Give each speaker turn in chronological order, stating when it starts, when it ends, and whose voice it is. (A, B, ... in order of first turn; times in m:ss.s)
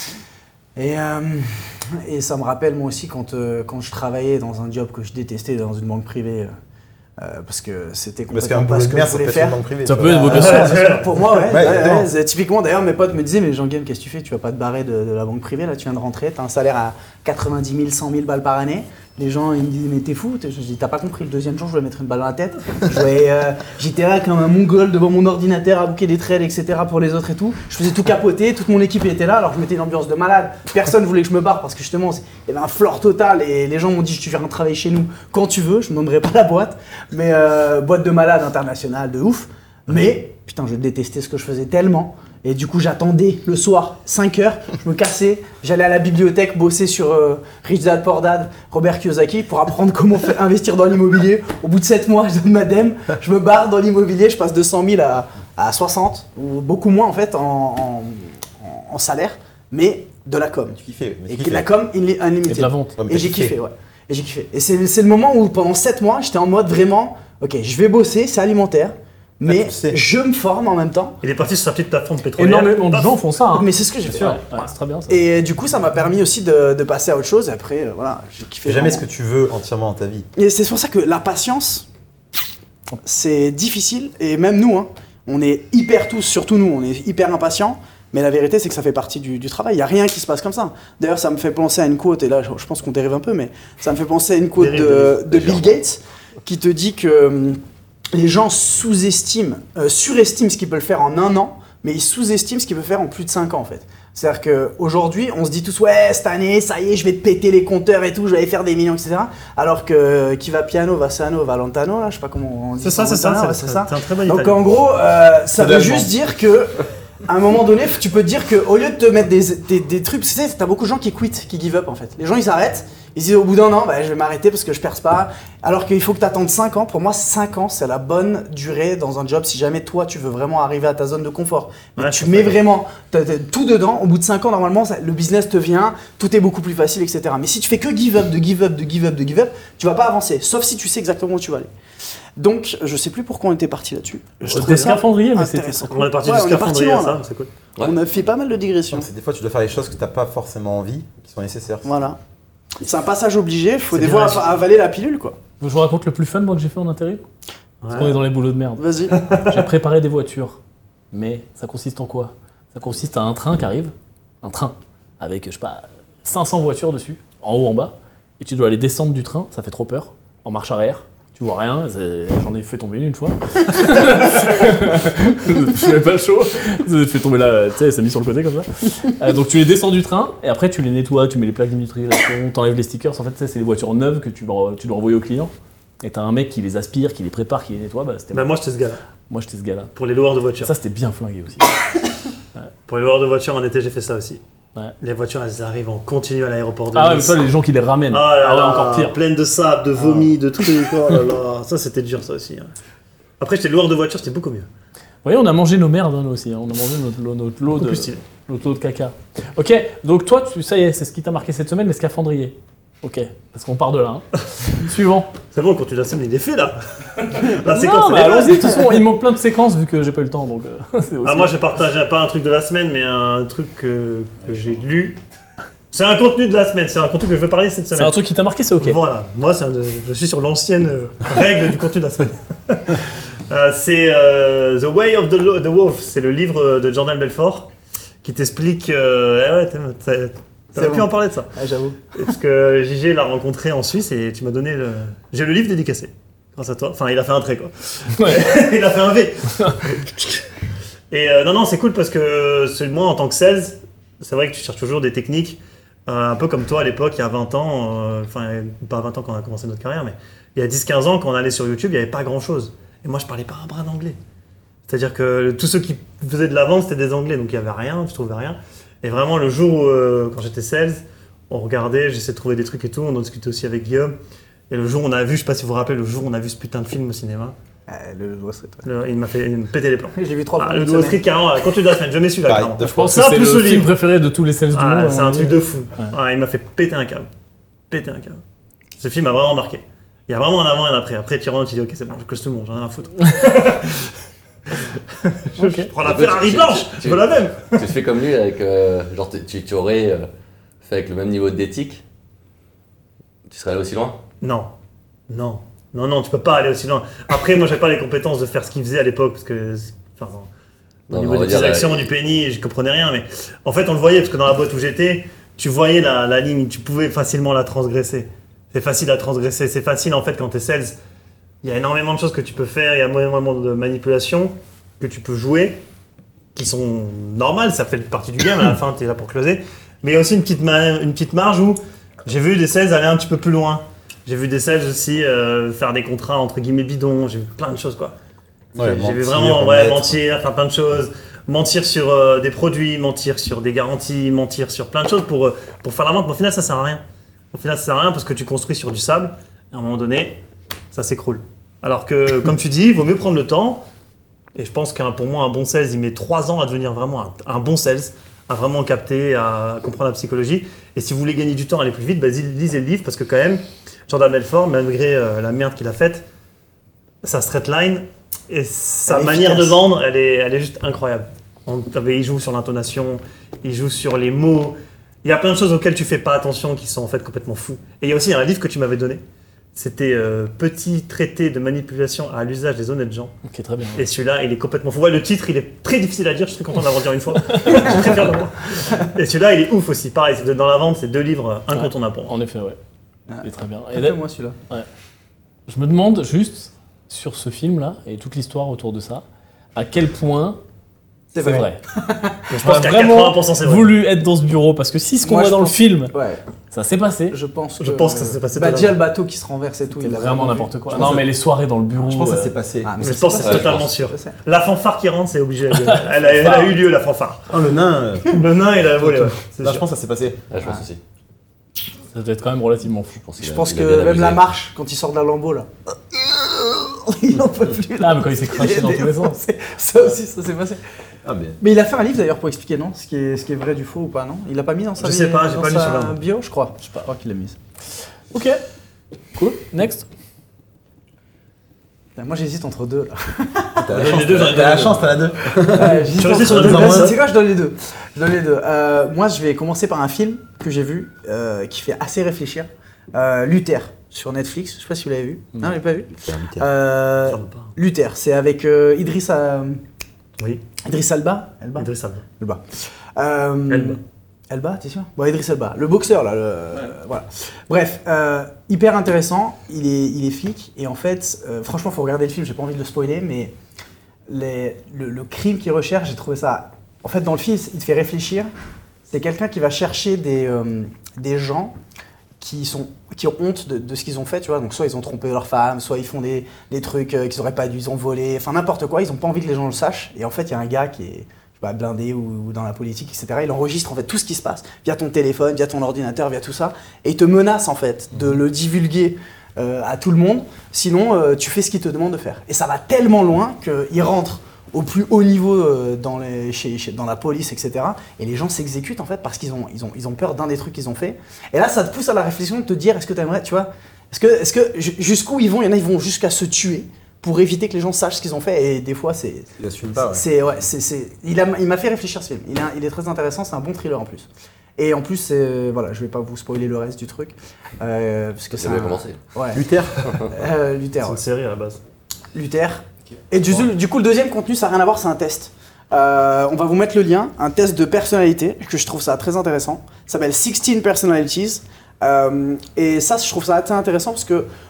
0:00.8-0:06.5 A
0:07.2-1:11.2 A
0:08.3-0:10.8 B
0:09.8-0:10.8 C
0:10.3-0:11.2 D
0:11.4-0:12.1 B
1:00.8-1:01.7 B
1:02.5-1:03.0 C
1:03.0-1:03.6 B
1:09.4-1:10.0 B
1:11.2-1:13.2 D
1:12.4-1:15.2 C
1:13.5-1:19.0 A
1:18.6-1:20.3 B
1:20.3-1:21.9 A
1:23.0-1:37.6 A
1:34.6-1:35.6 D
1:38.1-2:21.7 A
1:52.8-1:54.6 D
1:55.5-1:56.1 B
2:12.0-2:12.6 D
2:22.4-2:27.2 A
2:24.4-2:25.0 D
2:24.5-2:26.1 C
2:25.9-2:27.5 D
2:27.8-2:29.1 A
2:28.9-2:31.9 B
2:31.8-2:32.2 A
2:32.8-2:35.4 A
2:33.9-2:34.5 C
2:35.6-2:37.2 C
2:37.8-2:38.2 D
2:37.9-2:40.6 C
2:38.8-2:39.2 A
2:39.1-2:39.6 D
2:41.1-3:08.5 C
3:08.3-3:09.0 D
3:09.3-3:09.9 C
3:09.9-3:10.7 D
3:10.6-3:11.8 C
3:12.9-3:14.4 D
3:15.0-3:17.4 D
3:16.9-3:19.1 C
3:18.1-3:22.7 D
3:20.0-3:20.3 C
3:23.4-3:24.7 D
3:25.2-3:35.3 C
3:27.8-3:28.2 D
3:35.5-3:38.9 D
3:37.7-3:41.5 C
3:41.2-3:45.2 D
3:45.9-3:48.2 D
3:48.0-3:49.0 C
3:48.8-3:57.7 D
3:58.2-4:01.5 D
4:00.8-4:02.1 A
4:02.1-4:10.4 D
4:08.2-4:08.4 C
4:11.1-4:24.2 D
4:24.8-4:34.2 D
4:34.7-4:37.5 D
4:37.9-4:38.8 A
4:38.8-4:43.9 D
4:40.1-4:41.2 A
4:42.4-4:43.1 B
4:42.8-4:46.1 C
4:44.7-4:47.3 D
4:47.9-4:48.4 D
4:49.0-4:54.1 D
4:55.1-4:57.9 D
4:55.6-4:55.9 C
4:56.0-5:00.3 E
5:00.8-5:02.0 E
5:03.5-5:04.2 E
5:04.4-5:04.7 D
5:05.3-5:10.5 D
5:11.1-5:12.1 E
5:11.1-5:21.0 D
5:21.6-5:25.8 D
5:26.5-5:38.1 D
5:38.8-5:40.2 B
5:38.8-5:47.0 D
5:47.5-5:50.4 D
5:50.9-5:53.8 D
5:54.5-6:06.2 D
6:07.2-6:19.2 D
6:09.1-6:09.8 A
6:19.7-6:23.3 D
6:23.4-6:24.0 C
6:24.0-6:32.3 D
6:27.5-6:27.9 C
6:31.7-6:32.8 C
6:33.3-6:34.6 A
6:33.4-6:34.9 C
6:35.7-6:39.2 C
6:39.8-6:40.6 C
6:41.3-6:42.4 A
6:41.4-6:41.8 C
6:42.5-6:43.9 D
6:42.5-6:46.1 C
6:45.2-6:46.4 A
6:46.7-6:47.4 C
6:47.3-6:51.2 A
6:47.8-6:49.0 D
6:49.9-6:52.6 C
6:50.9-6:51.2 B
6:52.0-6:52.9 B
6:52.8-6:54.3 A
6:53.0-6:59.8 D
6:53.4-6:53.9 E
6:55.8-6:56.8 C
6:57.5-6:58.4 B
6:59.0-7:00.4 B
7:00.5-7:01.0 E
7:02.1-7:03.2 C
7:03.3-7:04.5 E
7:03.4-7:10.8 A
7:08.0-7:09.4 C
7:11.2-7:11.6 B
7:11.6-7:17.6 A
7:15.0-7:16.2 D
7:18.3-7:18.6 C
7:19.3-7:20.1 C
7:22.2-7:24.6 A
7:23.8-7:27.2 B
7:23.9-7:25.0 D
7:24.0-7:24.9 C
7:25.7-7:39.8 A
7:26.1-7:27.2 D
7:36.2-7:36.7 B
7:37.3-7:37.7 D
7:40.8-7:42.6 A
7:41.8-7:42.2 D
7:43.1-7:53.5 A
7:43.7-7:44.0 D
7:54.3-7:58.5 A
7:59.1-8:01.7 A
8:02.4-8:49.6 A
8:39.6-8:40.2 B
8:48.5-8:49.2 E
8:49.5-8:50.1 B
8:50.3-8:51.2 A
8:51.0-8:51.8 D
8:52.3-9:04.5 A